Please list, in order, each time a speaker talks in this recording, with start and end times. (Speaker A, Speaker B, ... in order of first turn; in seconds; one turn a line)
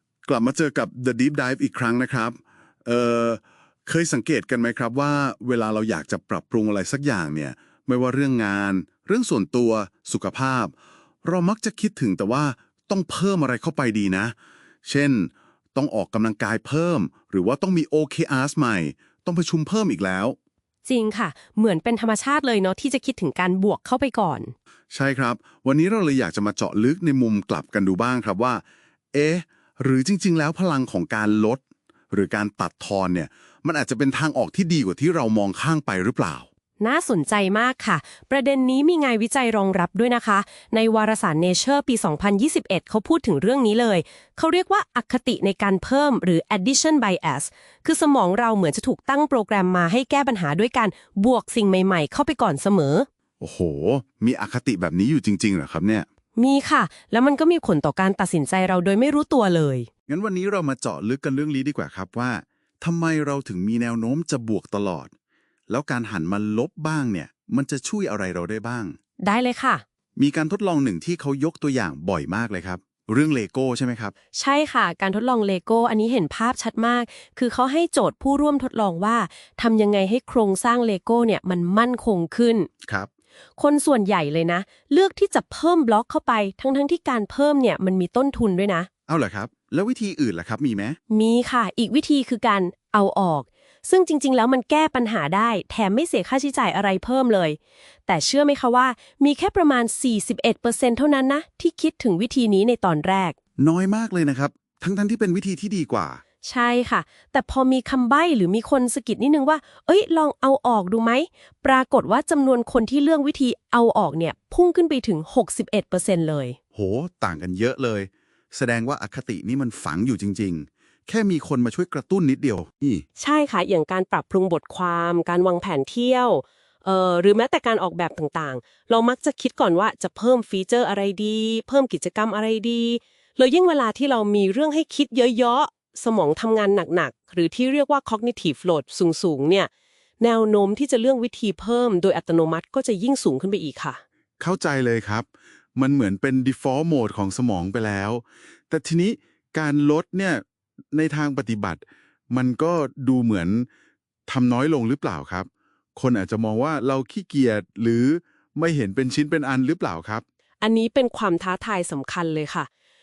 Speaker A: 0.2-10.7
Speaker A: 11.2-20.4
Speaker B: 20.9-24.5
Speaker A: 24.9-36.5
Speaker B: 36.8-53.1
Speaker A: 53.4-56.0
Speaker B: 56.4-59.9
Speaker A: 60.1-65.1
Speaker A: 65.7-69.0
Speaker B: 69.2-69.8
Speaker A: 70.2-74.1
Speaker B: 74.3-82.7
Speaker A: 82.8-83.1
Speaker B: 83.6-88.9
Speaker A: 89.1-91.0
Speaker B: 91.1-103.3
Speaker A: 103.6-106.2
Speaker B: 106.4-116.6
Speaker A: 116.7-123.0
Speaker B: 123.2-144.0
Speaker A: 144.4-153.7
Speaker A: 154.3-160.2
Speaker B: 160.6-162.7